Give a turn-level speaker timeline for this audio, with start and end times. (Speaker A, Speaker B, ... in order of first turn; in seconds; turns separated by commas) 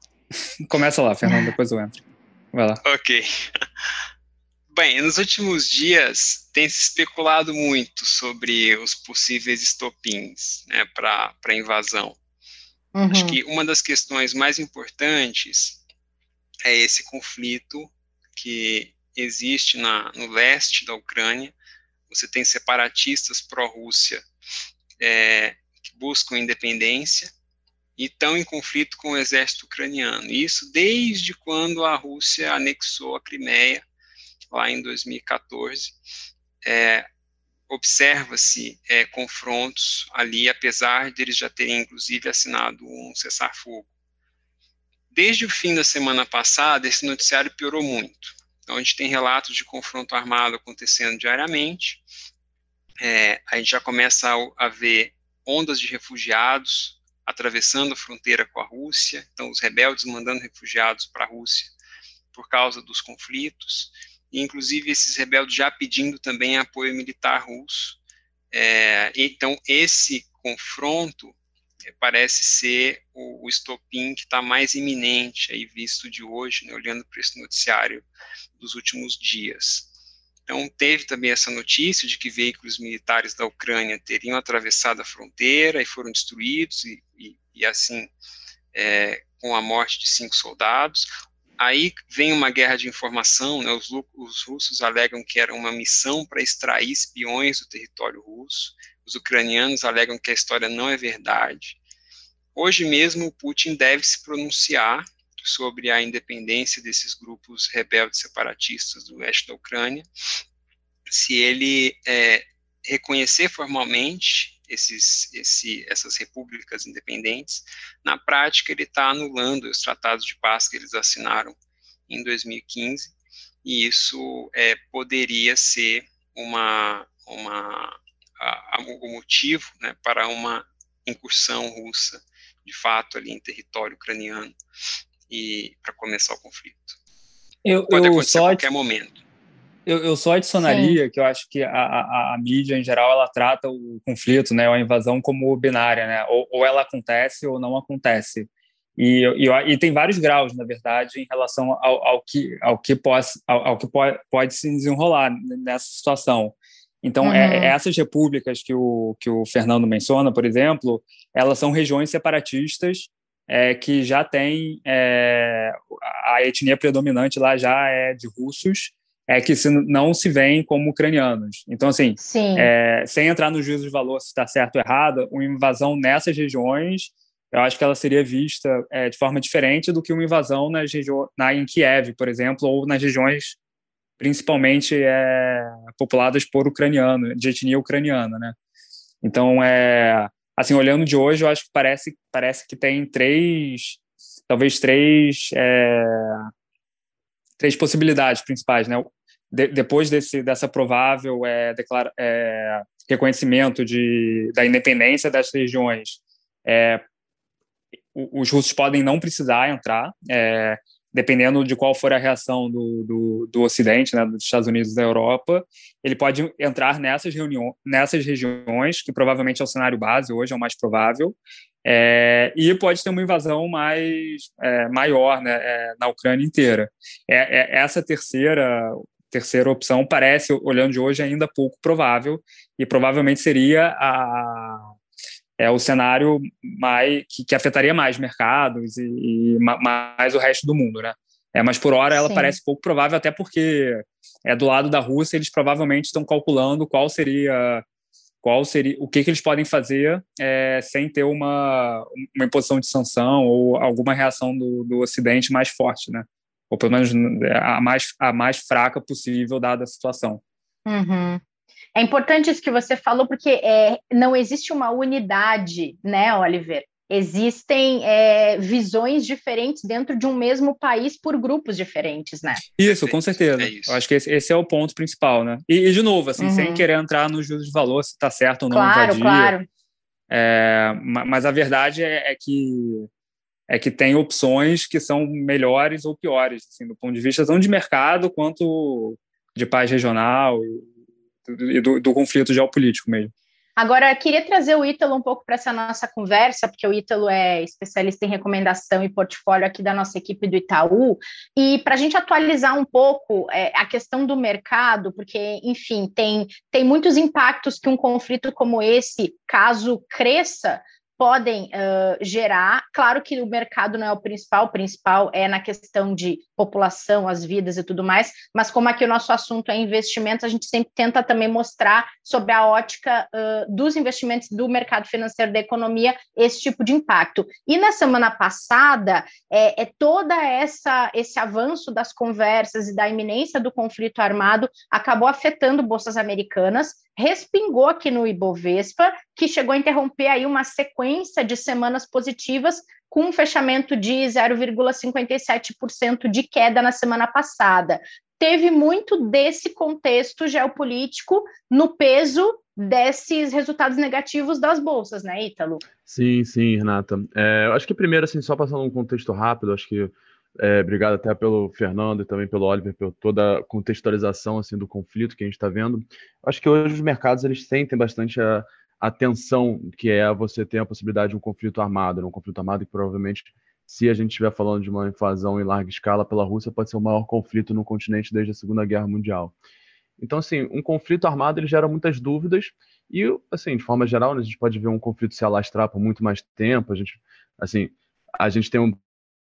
Speaker A: 0.6-2.0, Speaker A: 2.5-2.8, Speaker B: 2.8-3.3, Speaker B: 4.7-12.2, Speaker C: 12.9-13.4, Speaker B: 13.1-15.8, Speaker B: 16.6-21.5, Speaker B: 22.1-24.2, Speaker B: 25.0-27.3, Speaker B: 28.0-33.8, Speaker B: 34.5-36.0, Speaker B: 36.6-37.0, Speaker B: 37.7-43.9, Speaker B: 45.1-52.0, Speaker B: 53.0-61.7, Speaker B: 62.3-68.0, Speaker B: 68.5-71.3, Speaker B: 71.9-78.0, Speaker B: 78.6-79.9, Speaker B: 80.5-88.1, Speaker B: 88.7-101.8, Speaker B: 102.5-110.0, Speaker B: 111.1-121.5, Speaker B: 122.1-123.1, Speaker B: 123.6-134.5, Speaker B: 135.3-137.0, Speaker A: 137.6-138.6, Speaker B: 137.9-139.2, Speaker A: 139.8-183.6, Speaker C: 140.6-141.0, Speaker C: 157.2-157.7, Speaker C: 172.2-172.7, Speaker A: 184.2-188.5, Speaker A: 189.2-196.5, Speaker A: 197.6-207.0, Speaker A: 208.1-234.9, Speaker A: 235.6-247.8, Speaker C: 242.1-242.6, Speaker A: 248.4-260.4, Speaker C: 260.9-261.4, Speaker C: 261.9-272.6, Speaker A: 272.8-279.5, Speaker B: 272.9-274.0, Speaker C: 276.4-276.9, Speaker C: 278.7-279.6, Speaker A: 280.3-283.1, Speaker A: 283.7-290.9, Speaker A: 291.4-293.3, Speaker C: 293.8-355.8, Speaker D: 356.1-379.5, Speaker D: 380.2-389.0